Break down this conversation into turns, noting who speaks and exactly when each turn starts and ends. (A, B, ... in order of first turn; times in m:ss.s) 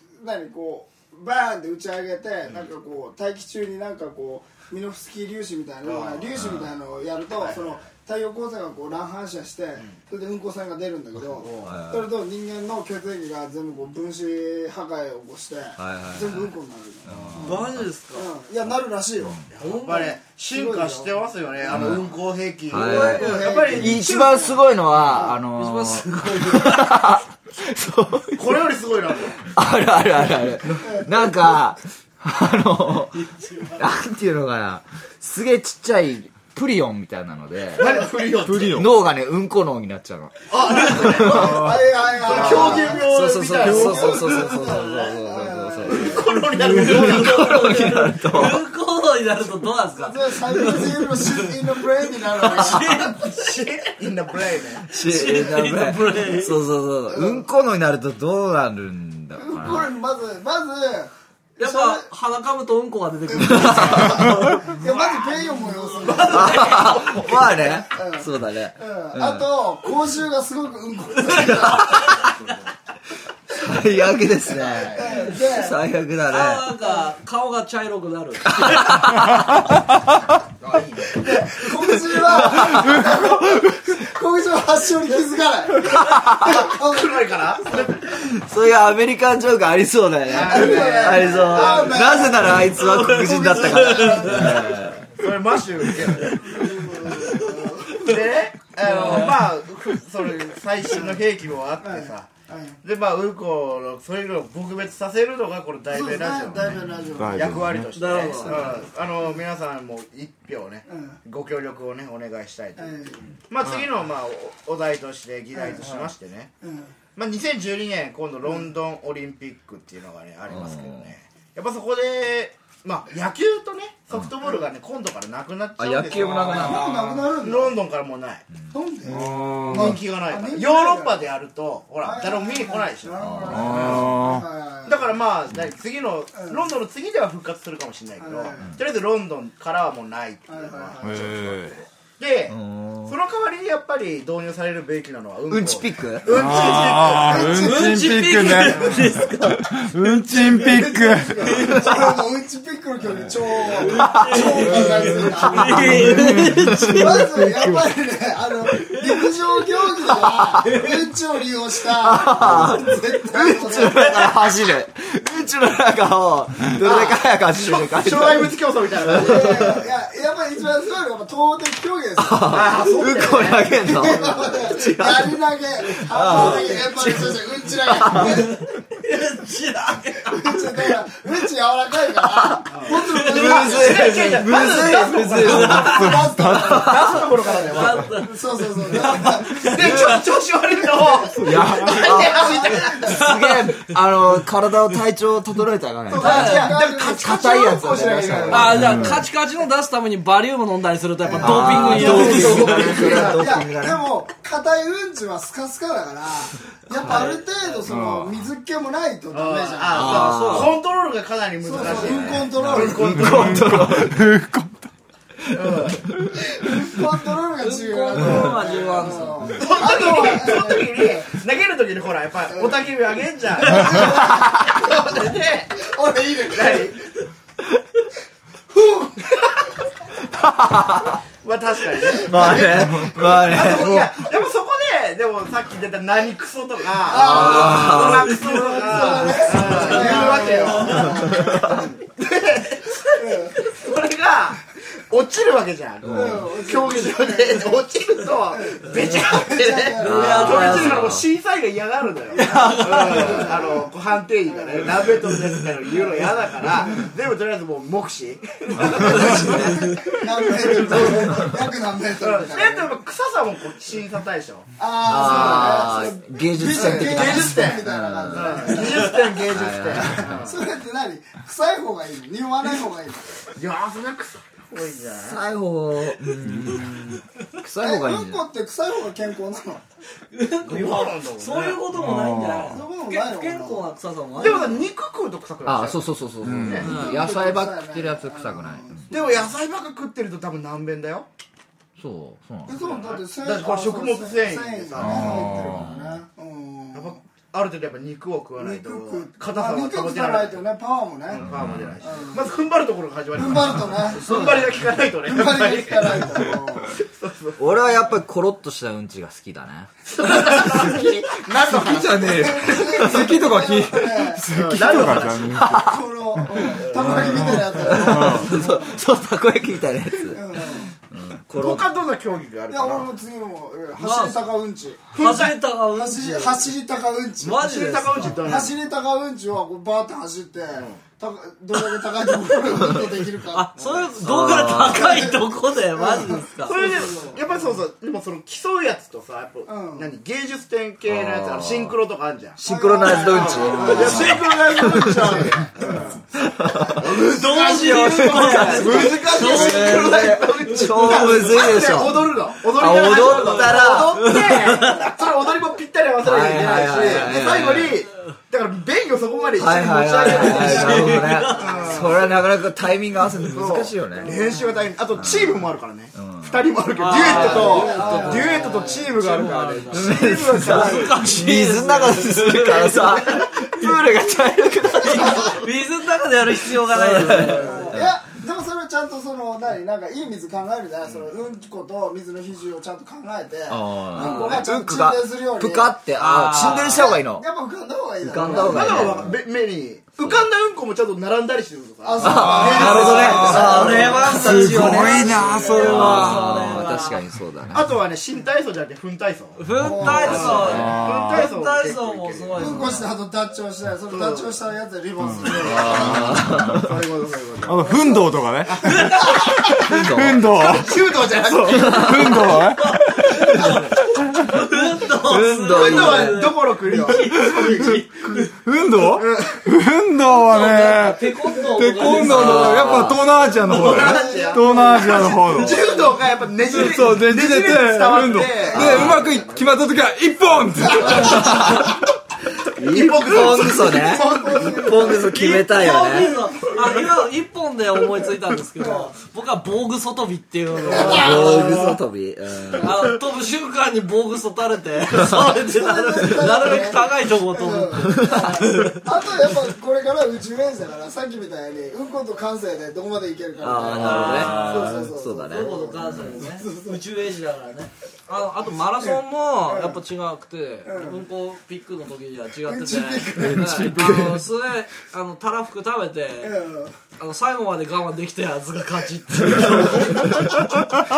0:00.2-0:19.4 A
0:05.8-0:06.5 B
0:06.4-0:06.7 C
0:07.4-0:07.8 B
0:11.3-0:11.8 B
0:11.6-0:12.2 C
0:15.8-0:17.9 C
0:17.4-0:18.3 D
0:19.5-0:25.2 B
0:19.6-0:20.2 D
0:20.4-0:22.2 A
0:21.7-0:22.0 C
0:22.7-0:28.5 C
0:22.7-0:24.4 A
0:25.2-0:25.4 A
0:25.5-0:26.9 D
0:28.4-0:29.4 B
0:29.5-0:33.1 C
0:30.8-0:31.3 A
0:33.1-0:33.9 D
0:33.8-0:37.9 C
0:37.8-0:38.8 B
0:38.4-0:38.9 E
0:38.6-0:41.6 C
0:40.5-0:44.3 B
0:40.7-0:41.3 D
0:41.4-0:43.0 A
0:42.3-0:46.2 C
0:43.6-0:46.3 A
0:45.9-0:47.8 B
0:46.4-0:51.6 D
0:46.8-0:48.6 C
0:49.9-0:53.2 A
0:52.3-0:53.6 D
0:53.1-0:54.9 B
0:54.9-0:56.6 D
0:54.9-0:59.9 C
0:57.1-0:57.5 A
0:59.4-1:02.1 A
1:01.6-1:07.7 D
1:03.3-1:06.7 A
1:03.4-1:04.2 C
1:03.7-1:04.1 B
1:06.3-1:09.5 C
1:07.9-1:12.2 A
1:11.3-1:12.3 C
1:13.6-1:16.7 C
1:14.6-1:15.8 A
1:15.0-1:15.3 D
1:16.3-1:19.1 D
1:18.5-1:19.4 C
1:21.2-1:27.9 A
1:22.3-1:22.8 C
1:22.4-1:23.8 E
1:26.4-1:28.1 B
1:28.1-1:35.1 C
1:30.3-1:32.4 B
1:30.3-1:34.7 A
1:32.6-1:34.7 D
1:35.1-1:36.4 B
1:36.4-1:38.1 A
1:37.1-1:38.1 D
1:38.0-1:42.3 B
1:38.8-1:39.5 D
1:40.9-1:41.2 A
1:41.8-1:42.8 A
1:42.8-1:46.8 B
1:45.9-1:47.6 A
1:46.6-1:47.1 C
1:47.2-1:47.9 E
1:47.3-1:56.5 B
1:47.9-1:48.6 D
1:50.9-1:51.2 A
1:52.8-1:53.3 A
1:55.5-1:56.0 A
1:56.6-1:56.9 A
1:57.2-2:06.8 B
2:00.5-2:01.1 C
2:04.4-2:04.7 A
2:05.8-2:07.0 C
2:06.2-2:07.2 E
2:06.6-2:07.8 A
2:07.3-2:08.5 B
2:08.7-2:11.3 A
2:09.0-2:10.0 E
2:09.7-2:14.2 B
2:12.0-2:15.1 A
2:13.2-2:13.9 C
2:13.5-2:14.5 E
2:14.8-2:27.7 B
2:16.3-2:16.6 A
2:18.2-2:18.7 A
2:20.5-2:21.4 A
2:21.0-2:21.8 E
2:22.5-2:23.2 C
2:25.5-2:26.3 C
2:26.3-2:31.9 E
2:26.6-2:28.0 A
2:27.6-2:29.9 D
2:30.3-2:36.3 A
2:31.4-2:32.0 D
2:33.8-2:37.3 D
2:33.9-2:34.4 C
2:34.8-2:37.9 E
2:36.9-2:44.3 A
2:38.9-2:39.2 D
2:40.6-2:41.0 D
2:42.0-2:48.5 C
2:46.8-2:49.8 B
2:49.0-2:53.0 A
2:49.1-2:49.9 C
2:52.2-2:58.5 C
2:52.5-2:54.5 B
2:53.9-2:58.5 A
2:56.2-2:56.8 D
2:58.2-3:00.7 D
3:00.3-3:04.2 A
3:02.2-3:06.1 C
3:02.7-3:08.0 B
3:02.9-3:03.9 D
3:05.5-3:07.0 E
3:05.7-3:09.7 A
3:06.7-3:07.2 C
3:07.7-3:10.2 D
3:09.5-3:13.1 B
3:11.4-3:12.2 E
3:11.6-3:19.0 C
3:12.0-3:13.3 A
3:13.1-3:13.8 D
3:16.1-3:18.9 A
3:16.2-3:18.7 B
3:16.2-3:16.7 D
3:18.5-3:23.3 D
3:18.7-3:19.3 E
3:21.2-3:30.3 A
3:21.4-3:24.1 C
3:22.1-3:23.1 B
3:27.1-3:27.5 D
3:27.9-3:28.4 E
3:29.3-3:33.8 B
3:30.0-3:30.7 C
3:30.0-3:30.8 D
3:31.6-3:33.4 A
3:31.9-3:34.3 C
3:33.1-3:34.8 E
3:35.5-3:36.1 B
3:36.5-3:41.4 A
3:37.6-3:39.7 D
3:39.6-3:45.8 B
3:42.5-3:42.9 A
3:43.6-3:47.0 A
3:46.4-3:47.0 B
3:48.7-3:49.2 A
3:50.3-3:51.2 C
3:51.4-4:21.5 B
3:52.1-3:53.9 A
3:52.2-3:54.1 C
3:57.0-4:01.9 A
3:57.1-3:58.4 C
3:57.3-4:01.3 D
4:01.1-4:01.8 C
4:03.2-4:03.7 A
4:06.0-4:06.4 C
4:06.1-4:07.8 A
4:08.5-4:10.7 A
4:10.0-4:11.3 C
4:10.0-4:11.2 D
4:12.3-4:13.4 D
4:12.4-4:13.8 A
4:13.2-4:13.6 C
4:14.5-4:15.2 A
4:19.2-4:19.6 C
4:19.3-4:22.9 A
4:22.2-4:26.1 B
4:24.8-4:29.3 A
4:25.0-4:30.4 C
4:26.7-4:30.7 B
4:30.2-4:33.3 A
4:33.6-4:35.4 B
4:35.2-4:38.4 C
4:36.4-4:36.9 E
4:37.8-4:39.8 A
4:40.3-4:44.8 D
4:40.6-4:41.9 B
4:41.9-4:42.8 E
4:42.7-4:43.9 A
4:44.3-4:47.0 B
4:45.6-4:49.1 C
4:46.4-4:47.0 E
4:46.8-4:47.3 D
4:46.8-4:49.5 A
4:49.1-4:51.3 B
4:52.0-4:53.0 C
4:52.7-4:57.2 A
4:52.7-4:55.7 B
4:55.0-4:56.0 E
4:55.6-4:56.2 C
4:56.9-5:00.6 B
4:58.6-5:01.5 A
5:01.3-5:08.0 B
5:01.4-5:01.9 E
5:01.6-5:01.8 C
5:02.0-5:02.5 A
5:03.4-5:06.9 A
5:07.6-5:09.9 C
5:10.1-5:12.6 B
5:11.7-5:18.5 E
5:12.2-5:14.5 A
5:14.5-5:15.7 B
5:15.6-5:15.9 C
5:15.8-5:19.0 A
5:16.8-5:17.4 B
5:17.8-5:20.6 C
5:20.2-5:20.9 A
5:21.1-5:21.9 C
5:21.5-5:23.1 B
5:22.7-5:25.1 A
5:24.0-5:24.4 D
5:25.2-5:25.6 B
5:25.2-5:26.7 D
5:25.9-5:27.7 A
5:27.4-5:28.5 D
5:27.6-5:28.8 B
5:28.3-5:33.8 A
5:30.7-5:31.0 B
5:33.5-5:36.8 D
5:33.8-5:34.1 B
5:34.2-5:35.3 C
5:34.9-5:35.4 A
5:35.9-5:37.7 A
5:36.6-5:46.2 B
5:39.7-5:40.1 A
5:41.1-5:41.7 C
5:42.6-5:45.5 C
5:42.6-5:46.1 A
5:46.6-5:54.7 C
5:47.0-5:52.0 D
5:47.0-6:02.3 B
5:48.5-5:49.0 A
5:54.3-5:55.1 D
5:56.2-5:58.0 C
5:59.5-6:04.3 C
6:00.3-6:02.1 D
6:03.5-6:11.2 B
6:04.2-6:04.8 A
6:05.2-6:05.6 C
6:06.2-6:06.6 C
6:07.0-6:13.3 D
6:07.1-6:09.0 A
6:09.9-6:15.7 C
6:10.8-6:11.1 A
6:15.0-6:18.0 D
6:15.1-6:15.6 A
6:16.5-6:18.2 C
6:17.6-6:26.0 A
6:21.0-6:21.3 B
6:23.7-6:27.5 C
6:24.2-6:24.6 D
6:26.2-6:27.1 D
6:26.6-6:29.2 A
6:28.2-6:29.4 C
6:28.4-6:34.2 B
6:32.0-6:35.5 A
6:32.2-6:37.9 C
6:32.3-6:36.6 E
6:32.8-6:37.2 D
6:37.7-6:43.0 B
6:39.6-6:43.1 D
6:39.8-6:40.8 A
6:40.1-6:41.0 C
6:40.7-6:41.5 E
6:42.6-6:46.4 A
6:44.1-6:44.5 B
6:45.2-6:46.9 E
6:45.6-6:47.9 B
6:45.6-6:46.9 C
6:47.6-6:53.8 E
6:47.8-6:48.3 A
6:48.8-6:49.3 D
6:49.8-6:50.5 C
6:50.5-6:52.5 B
6:51.7-6:52.3 C
6:51.9-6:52.1 A
6:52.6-6:58.5 D
6:55.2-6:56.4 C
6:55.7-6:58.0 B
6:56.8-6:57.1 A
6:57.3-7:05.8 E
6:59.0-6:59.6 B
7:00.3-7:04.0 D
7:02.3-7:03.2 C
7:03.4-7:09.6 B
7:03.8-7:06.1 A
7:06.7-7:12.0 E
7:08.4-7:09.3 A
7:11.0-7:11.9 C
7:12.8-7:16.4 C
7:12.8-7:15.0 B
7:13.9-7:15.3 A
7:15.0-7:21.8 D
7:18.8-7:19.1 A
7:20.8-7:21.9 A
7:20.9-7:23.1 C
7:22.8-7:29.0 D
7:25.4-7:37.0 A
7:33.6-7:35.9 C
7:33.8-7:35.0 D
7:34.4-7:35.0 E
7:35.5-7:46.6 D
7:39.0-7:40.0 A
7:40.8-7:41.3 A
7:42.6-7:44.4 A
7:43.4-7:44.3 C
7:43.5-7:44.1 E
7:46.4-7:46.9 A
7:47.2-7:50.6 D